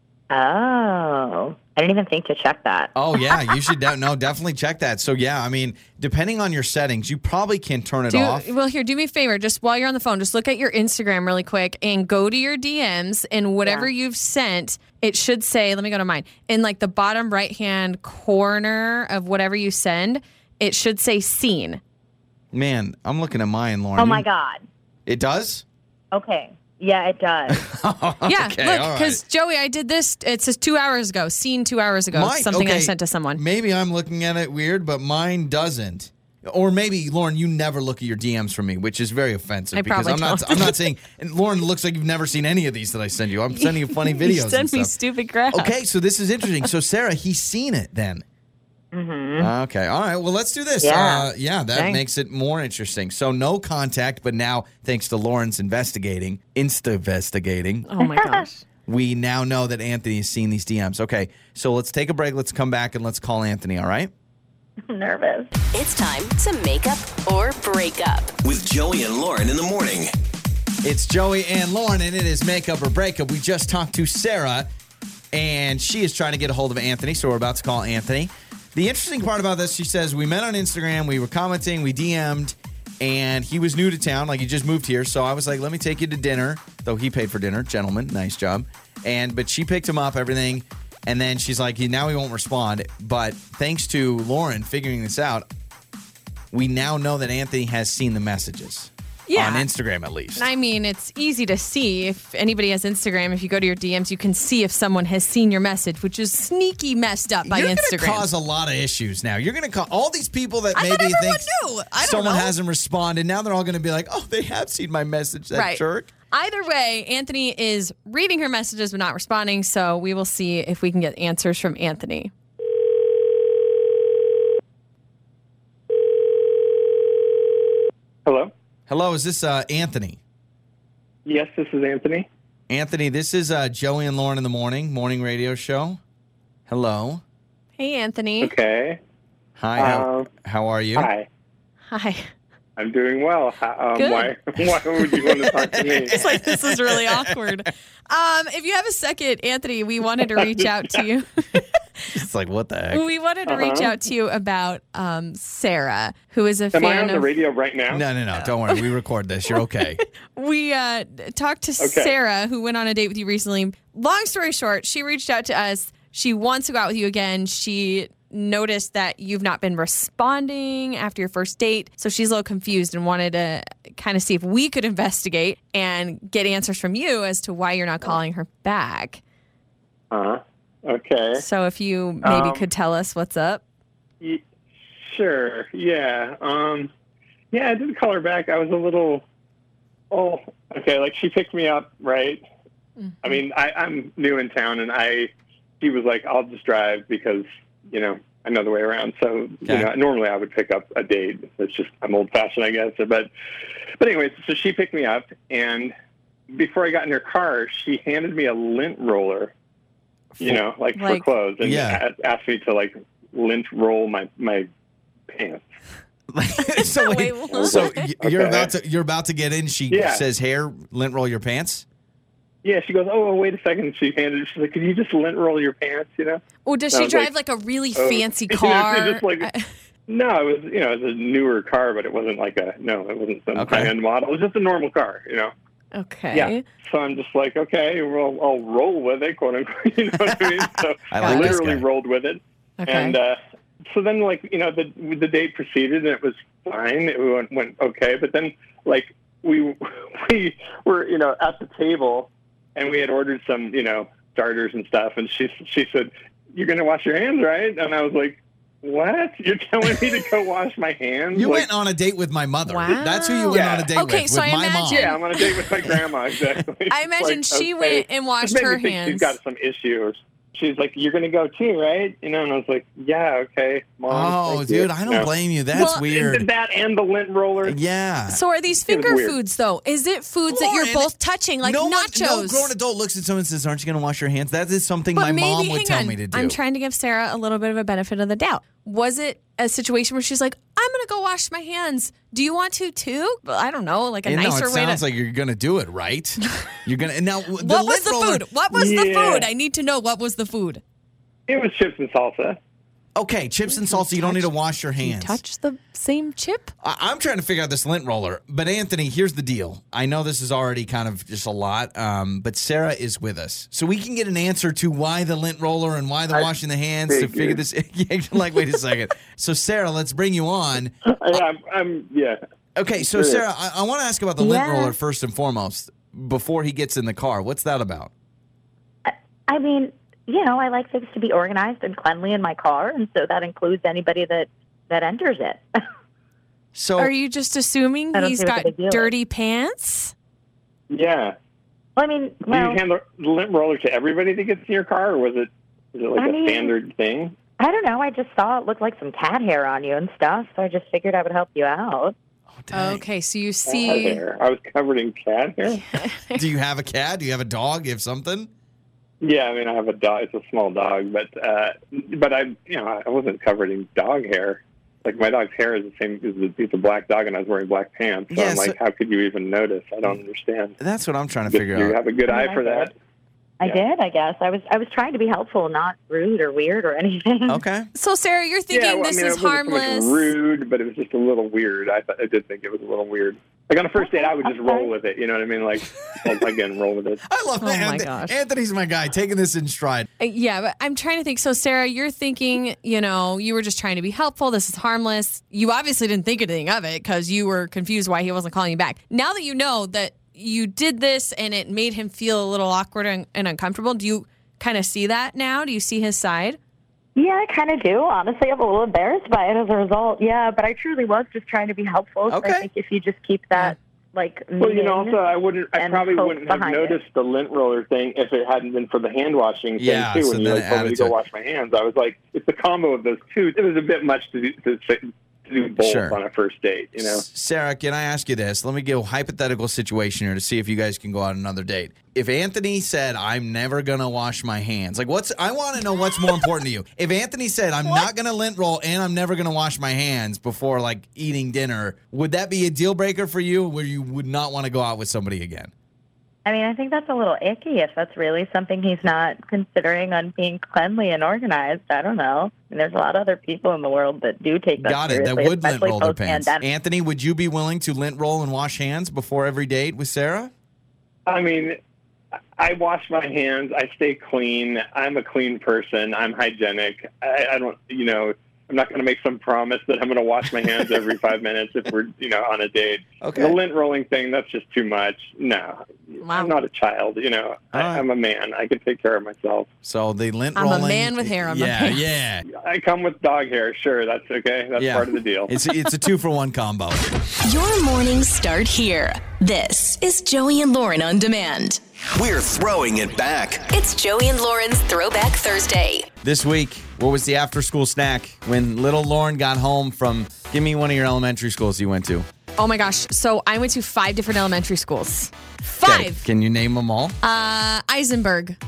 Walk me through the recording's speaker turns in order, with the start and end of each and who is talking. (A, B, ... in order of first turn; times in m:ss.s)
0:00.3-0:02.9 A
0:02.9-0:08.5 B
0:08.1-0:21.8 C
0:13.6-0:13.9 A
0:22.5-0:24.2 B
0:24.0-0:24.6 A
0:25.1-0:25.6 B
0:26.1-0:27.6 A
0:27.5-0:29.2 B
0:28.2-0:33.4 C
0:32.1-0:44.9 B
0:39.7-0:40.8 C
0:43.5-0:45.8 C
0:45.5-0:48.2 B
0:48.9-0:49.5 A
0:49.4-0:57.9 B
0:50.8-0:51.3 A
0:51.7-0:52.0 C
0:57.9-0:58.6 C
0:58.0-0:58.4 A
0:58.9-1:04.1 B
1:04.9-1:05.5 A
1:05.7-1:08.4 D
1:08.4-1:10.1 E
1:10.8-1:14.7 B
1:15.3-1:35.5 B
1:36.5-1:40.5 B
1:39.3-1:39.7 C
1:40.4-1:48.2 C
1:47.4-1:56.1 B
1:50.7-1:52.5 C
1:55.5-2:02.3 C
2:08.2-2:08.5 F
2:08.9-2:10.2 B
2:11.2-2:12.3 F
2:12.7-2:16.0 B
2:16.7-2:17.2 B
2:17.8-2:18.5 C
2:18.4-2:19.0 F
2:19.6-2:21.1 B
2:19.8-2:20.3 F
2:21.0-2:21.3 F
2:21.9-2:22.3 C
2:22.8-2:26.1 F
2:24.0-2:24.4 C
2:25.6-2:27.6 B
2:26.1-2:32.0 C
2:30.4-2:31.0 F
2:32.1-2:33.0 B
2:32.9-2:37.2 C
2:33.4-2:33.9 F
2:36.7-2:38.0 F
2:37.9-2:40.0 B
2:40.4-2:59.2 C
2:41.8-2:42.1 F
3:00.1-3:01.4 F
3:01.4-3:03.6 C
3:02.2-3:02.6 F
3:05.0-3:06.9 F
3:07.5-3:09.2 F
3:10.1-3:12.4 F
3:13.1-3:13.4 C
3:13.2-3:23.3 F
3:19.6-3:19.9 B
3:24.0-3:25.9 F
3:26.5-3:29.5 F
3:30.4-3:30.6 B
3:30.4-3:34.7 F
3:31.0-3:31.2 C
3:31.6-3:32.0 B
3:35.3-3:35.6 F
3:36.3-3:41.8 B
3:36.6-3:38.1 C
3:37.5-3:38.7 F
3:39.9-3:40.2 F
3:42.6-3:47.3 F
3:46.6-3:49.7 C
3:48.0-3:49.5 F
3:50.1-3:55.5 F
3:53.5-3:53.9 B
3:55.9-3:56.6 C
3:56.3-4:03.4 F
4:01.1-4:01.8 B
4:01.2-4:01.6 C
4:02.8-4:03.2 C
4:03.9-4:21.7 F
4:21.3-4:25.2 B
4:22.7-4:25.6 C
4:23.5-4:23.9 F
4:24.9-4:35.3 F
4:26.9-4:29.4 C
4:34.1-4:36.4 B
4:35.7-4:36.0 C
4:36.1-4:37.8 F
4:37.6-4:38.4 B
4:38.3-4:42.7 C
4:38.8-4:39.4 F
4:40.5-4:46.6 B
4:45.1-4:55.0 C
4:54.2-4:58.4 B
4:57.6-5:00.8 C
4:58.7-4:59.5 F
5:01.5-5:02.6 F
5:03.2-5:05.4 B
5:03.7-5:06.7 C
5:06.8-5:21.4 B
5:17.1-5:17.6 F
5:21.1-5:22.4 F
5:22.8-5:28.1 B
5:23.0-5:23.4 F
5:24.4-5:24.9 A
5:29.0-5:35.6 A
5:36.7-5:37.1 B
5:37.0-5:40.1 C
5:38.1-5:39.1 A
5:40.9-5:41.4 F
5:42.0-5:42.8 A
5:42.5-5:47.4 F
5:46.2-5:46.7 A
5:47.6-5:52.1 A
5:52.6-5:53.0 B
5:52.7-5:54.2 C
5:53.7-5:55.9 F
5:55.9-5:56.4 C
5:56.4-5:58.5 B
5:59.2-6:10.8 F
6:08.3-6:08.8 B
6:10.8-6:12.0 B
6:11.5-6:12.9 F
6:12.3-6:12.9 A
6:13.6-6:17.6 A
6:17.5-6:17.9 B
6:17.9-6:20.3 C
6:18.7-6:27.2 F
6:24.0-6:24.9 A
6:27.3-6:30.1 B
6:27.6-6:28.4 C
6:30.2-6:46.6 C
6:47.2-6:55.2 A
6:52.3-6:52.7 B
6:54.6-7:07.2 F
6:55.8-6:57.0 A
6:59.8-7:01.2 B
7:05.8-7:06.2 B
7:07.0-7:25.7 B
7:26.4-7:36.6 A
7:34.8-7:40.5 B
7:41.3-7:41.8 F
7:42.6-7:59.7 F
7:53.2-7:53.6 B
7:56.2-7:56.5 C
7:57.7-7:58.0 B
7:59.8-8:02.4 B
8:00.6-8:02.0 C
8:02.5-8:05.6 F
8:04.8-8:07.1 B
8:07.4-8:11.8 D
8:12.1-8:13.7 E
8:13.7-8:16.1 D
8:16.2-8:22.3 B
8:22.6-8:26.2 C
8:25.8-8:27.2 B
8:27.2-8:28.6 C